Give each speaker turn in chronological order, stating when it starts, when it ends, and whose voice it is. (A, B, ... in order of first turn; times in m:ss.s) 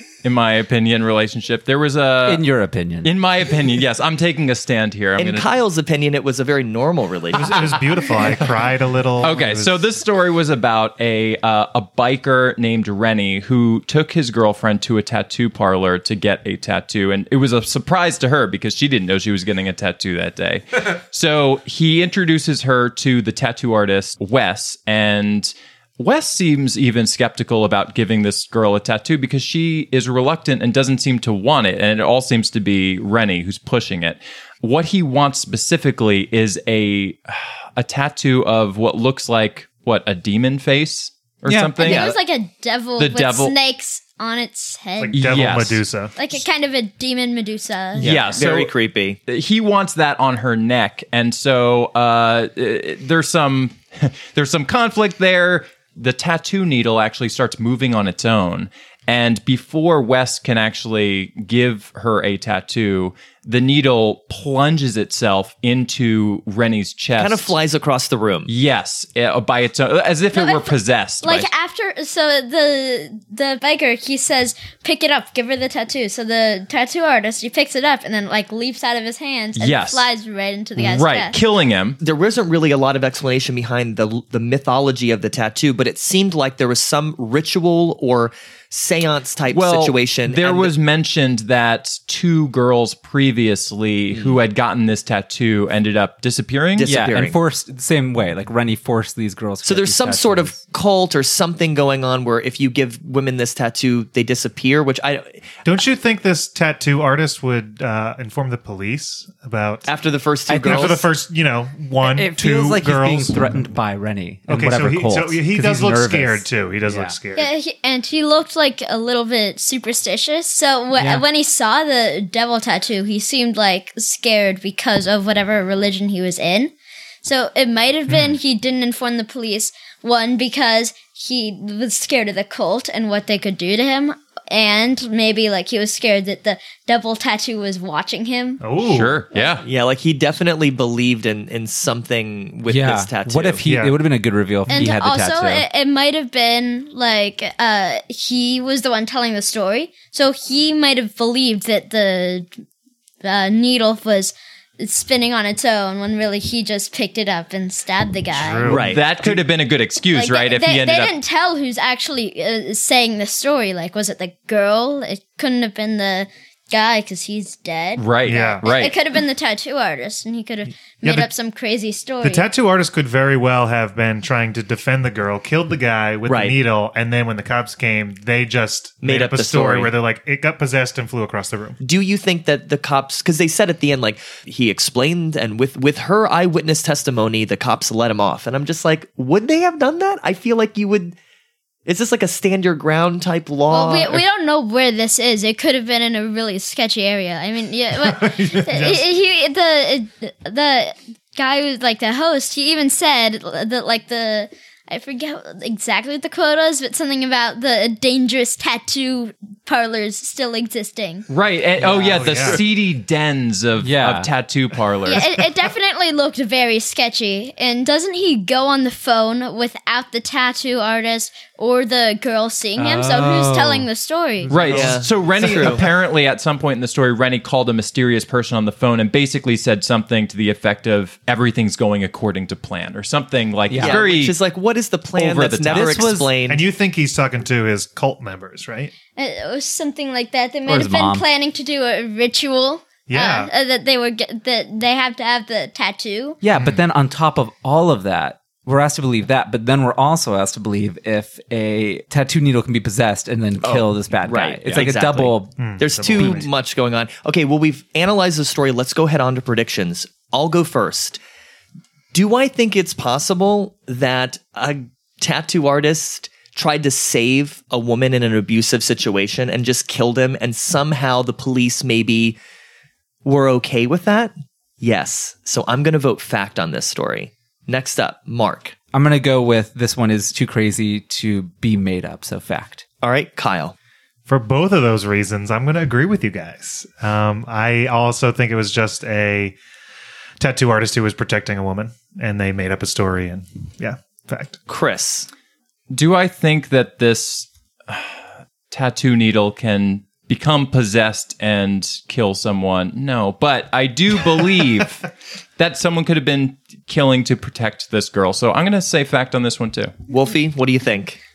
0:00.2-0:02.5 A
0:02.2-0:03.2 B
0:03.0-0:05.5 A
0:05.2-0:08.1 C
0:07.3-0:10.0 D
0:09.2-0:42.1 A
0:41.5-0:41.9 B
0:41.8-0:45.3 E
0:41.8-0:42.2 C
0:43.0-0:43.5 A
0:45.0-0:46.1 D
0:45.1-0:45.8 A
0:46.2-0:48.1 E
0:48.0-0:49.2 C
0:48.0-0:48.7 A
0:49.3-1:07.6 A
1:07.2-1:08.5 C
1:08.5-1:11.5 A
1:10.3-1:21.4 E
1:19.6-1:20.1 A
1:20.8-1:22.0 A
1:22.0-1:30.7 C
1:29.5-1:36.9 A
1:34.1-1:34.4 C
1:36.8-1:37.4 C
1:36.8-1:40.6 B
1:39.6-1:45.4 C
1:45.6-1:49.9 D
1:49.9-1:51.0 C
1:50.5-1:51.0 B
1:50.6-1:53.7 D
1:52.0-1:57.2 B
1:54.5-1:57.5 D
1:57.4-2:06.7 E
2:01.0-2:01.2 B
2:07.2-2:18.6 E
2:08.1-2:08.4 D
2:18.6-2:19.2 D
2:18.8-2:19.6 A
2:19.6-2:23.6 C
2:22.7-2:25.7 B
2:23.6-2:24.0 D
2:24.7-2:32.5 E
2:33.2-2:38.7 E
2:38.3-2:39.0 D
2:38.7-2:39.4 C
2:38.7-2:41.2 A
2:40.1-2:48.0 E
2:48.0-2:49.0 A
2:48.2-2:48.6 D
2:48.6-2:52.5 E
2:51.0-2:51.3 D
2:52.2-3:01.8 D
2:56.3-2:56.6 C
2:59.0-2:59.9 C
3:01.8-3:11.2 C
3:11.9-3:14.2 C
3:13.7-3:31.2 E
3:18.0-3:19.1 D
3:31.3-3:35.2 A
3:31.8-3:32.6 B
3:32.0-3:32.6 D
3:33.8-3:34.3 B
3:35.1-3:44.5 E
3:42.8-3:43.9 B
3:44.4-3:45.7 D
3:44.5-3:54.4 A
3:44.7-3:45.9 C
3:53.7-3:54.0 B
3:53.8-3:56.7 C
3:55.2-3:56.0 A
3:55.7-3:56.4 B
3:56.5-3:58.9 D
3:59.2-4:06.4 E
4:00.7-4:01.2 B
4:03.1-4:03.5 D
4:06.4-4:16.5 B
4:13.6-4:21.2 C
4:15.6-4:16.5 D
4:22.1-4:32.4 C
4:33.2-4:38.8 C
4:38.9-4:42.8 B
4:43.0-4:43.8 C
4:44.3-4:49.6 D
4:50.4-4:54.6 D
4:54.7-4:55.3 C
4:55.9-5:05.1 A
5:05.6-5:09.9 A
5:10.1-5:11.2 C